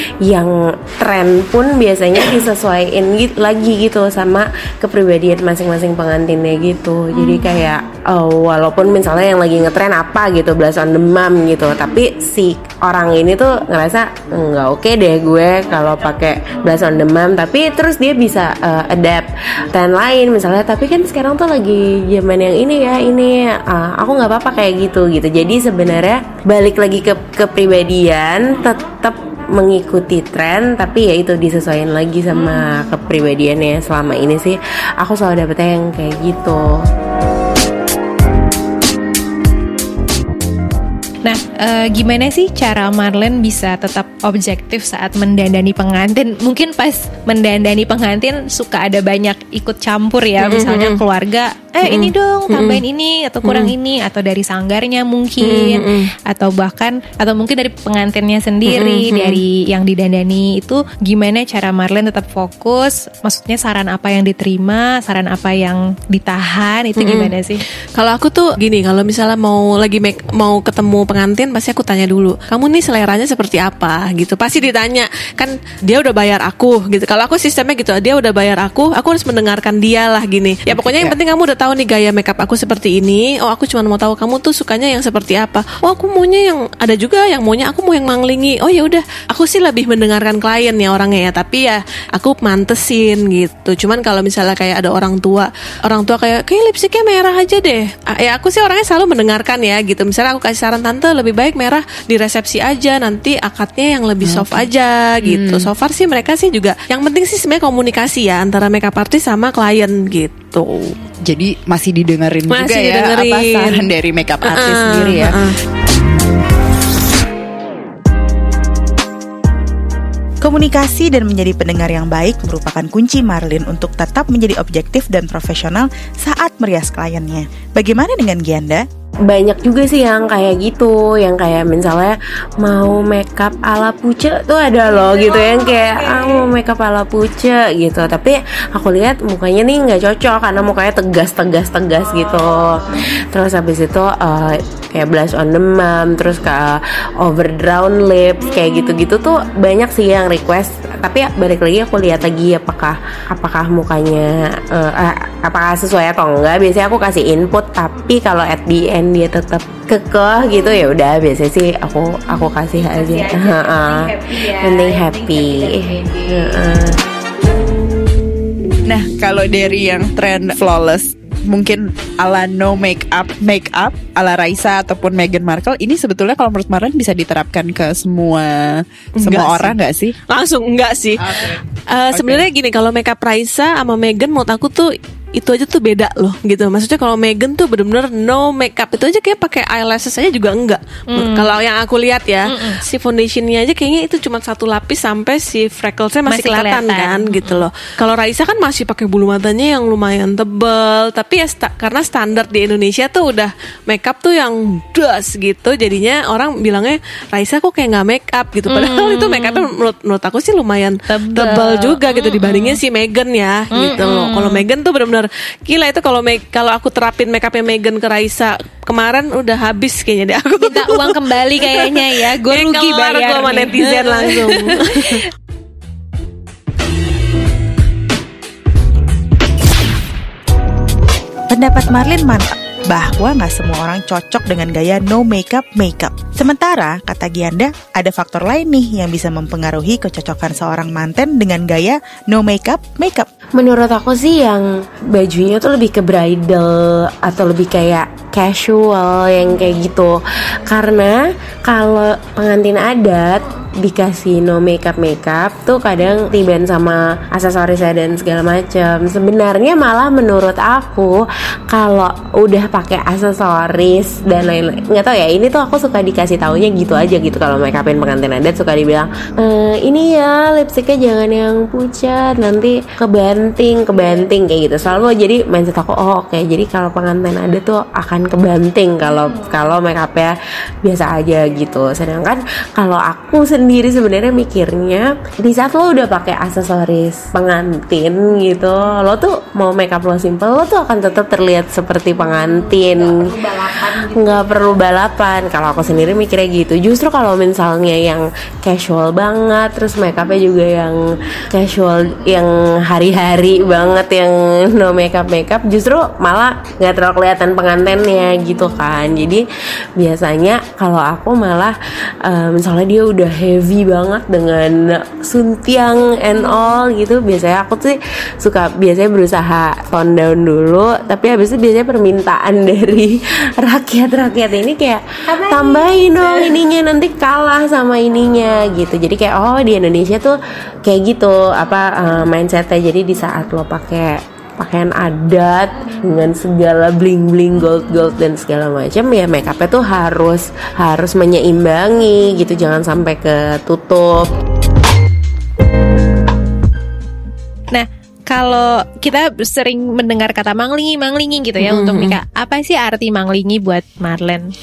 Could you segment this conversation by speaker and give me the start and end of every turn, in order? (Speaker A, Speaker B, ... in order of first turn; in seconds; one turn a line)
Speaker A: 0.2-36.8
Speaker B: 41.2-67.6
Speaker C: 50.4-51.0
Speaker C: 51.9-52.8
Speaker C: 53.5-53.7
Speaker C: 55.4-56.1
Speaker C: 58.7-59.4
Speaker C: 67.0-67.3
Speaker C: 68.0-110.9
Speaker D: 80.7-81.2
Speaker D: 104.2-104.7
Speaker D: 105.2-105.7
Speaker D: 111.2-115.4
Speaker C: 112.5-113.9
Speaker C: 114.4-115.5
Speaker E: 120.4-128.9
Speaker A: 129.2-167.0
Speaker D: 168.9-180.2
Speaker C: 179.2-179.8
Speaker C: 180.3-225.2
Speaker D: 181.2-182.5
Speaker B: 191.1-191.5
Speaker B: 192.5-192.8
Speaker B: 196.2-197.7
Speaker B: 208.7-209.7
Speaker B: 211.1-212.8
Speaker B: 213.7-214.6
Speaker B: 220.6-225.2
Speaker E: 231.5-243.3
Speaker A: 243.6-309.4
Speaker A: 310.0-344.3
Speaker B: 347.7-354.5
Speaker C: 351.6-352.2